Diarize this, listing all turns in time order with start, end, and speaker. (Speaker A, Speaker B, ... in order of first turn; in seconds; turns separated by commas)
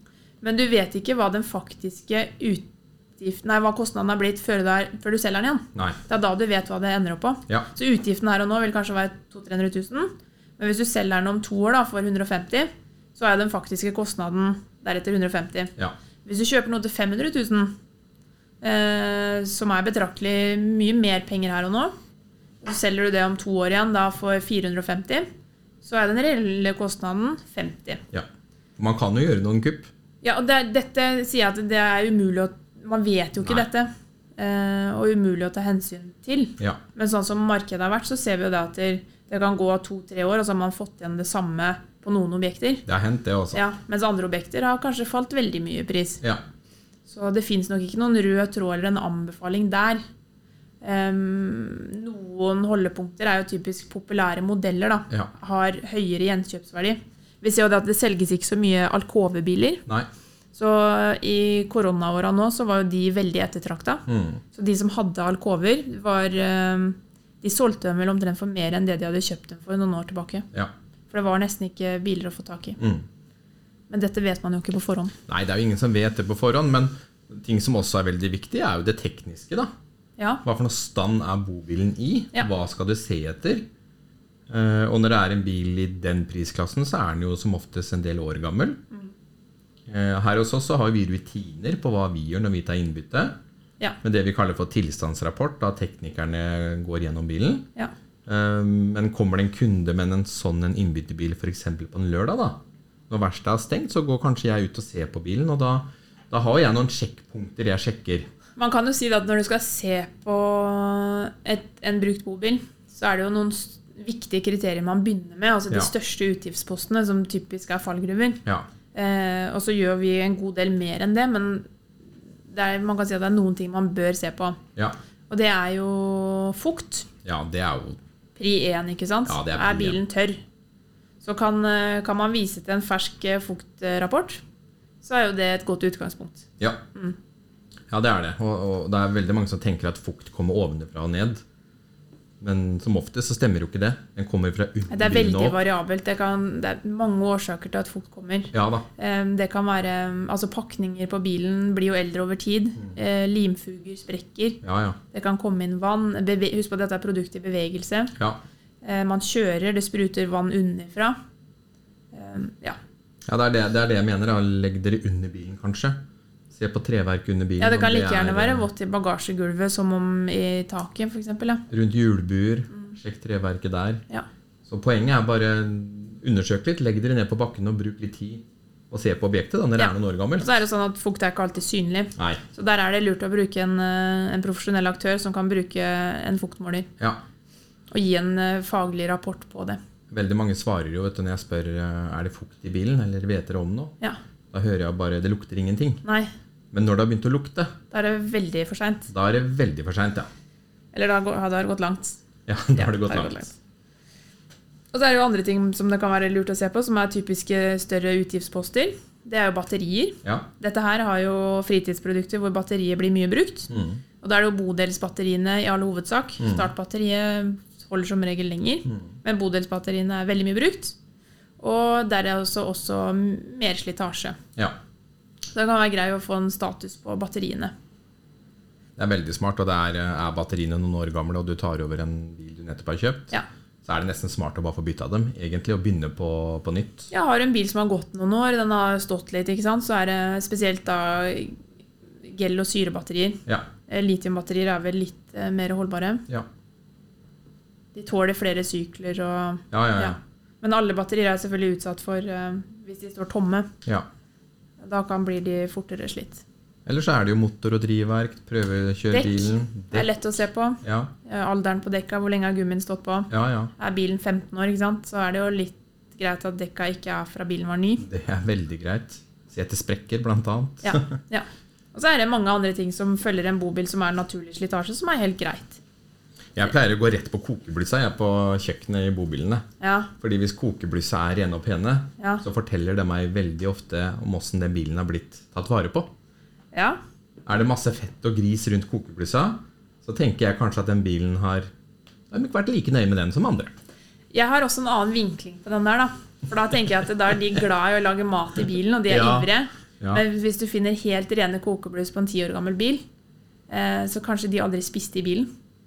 Speaker A: 0.4-2.7, Speaker A: 3.2-15.7, Speaker A: 16.2-17.7, Speaker A: 18.6-21.9, Speaker A: 22.6-25.3, Speaker A: 25.8-28.0, Speaker B: 28.1-29.9, Speaker A: 30.2-42.9, Speaker B: 42.9-43.6, Speaker A: 43.5-46.2, Speaker A: 47.1-50.0, Speaker A: 50.8-59.8, Speaker A: 60.5-70.5, Speaker B: 64.1-64.4, Speaker A: 71.1-72.8, Speaker B: 72.8-73.0, Speaker A: 73.9-75.1, Speaker B: 75.3-79.7, Speaker A: 80.2-80.4, Speaker B: 80.4-83.7, Speaker B: 84.5-88.8, Speaker B: 89.9-93.4, Speaker B: 94.0-97.7, Speaker B: 98.3-108.3, Speaker A: 108.6-118.4, Speaker A: 118.9-121.7, Speaker A: 122.5-124.6, Speaker A: 125.3-127.1, Speaker B: 127.2-128.0, Speaker A: 128.4-130.4, Speaker B: 129.3-130.0, Speaker A: 131.2-134.4, Speaker A: 135.0-137.2, Speaker B: 137.9-141.4, Speaker B: 142.4-145.6, Speaker A: 144.9-154.6, Speaker B: 148.5-148.9, Speaker B: 154.6-155.0, Speaker A: 155.1-158.1, Speaker A: 158.8-161.2, Speaker A: 162.1-162.8, Speaker B: 163.3-166.0, Speaker B: 166.5-168.7, Speaker A: 167.6-171.6, Speaker B: 171.7-174.0, Speaker B: 174.7-180.6, Speaker A: 179.8-186.9, Speaker B: 182.2-182.4, Speaker A: 187.9-189.8, Speaker B: 190.1-193.9, Speaker B: 194.5-196.0, Speaker A: 196.0-196.3, Speaker B: 196.7-197.7, Speaker A: 197.9-199.1, Speaker B: 199.1-200.3, Speaker A: 200.9-202.2, Speaker B: 202.5-203.5, Speaker A: 202.8-203.5, Speaker A: 204.9-213.7, Speaker B: 213.7-214.0, Speaker A: 214.2-220.9, Speaker B: 216.4-216.7, Speaker A: 221.6-224.4, Speaker A: 225.5-227.7, Speaker B: 229.0-233.3, Speaker B: 233.8-237.1, Speaker A: 237.1-241.6, Speaker A: 242.2-246.2, Speaker A: 247.9-253.7, Speaker B: 249.7-250.2, Speaker A: 254.8-256.4, Speaker B: 256.9-260.1, Speaker A: 259.1-268.1, Speaker B: 260.8-261.1, Speaker B: 263.3-263.7, Speaker B: 268.0-271.2, Speaker A: 270.8-275.8, Speaker B: 276.6-279.7, Speaker A: 279.8-280.1, Speaker B: 280.2-286.1, Speaker A: 282.2-282.4, Speaker A: 286.7-287.0, Speaker B: 287.5-291.7, Speaker B: 292.3-293.7, Speaker A: 294.3-303.0, Speaker B: 299.1-299.5, Speaker A: 303.7-305.5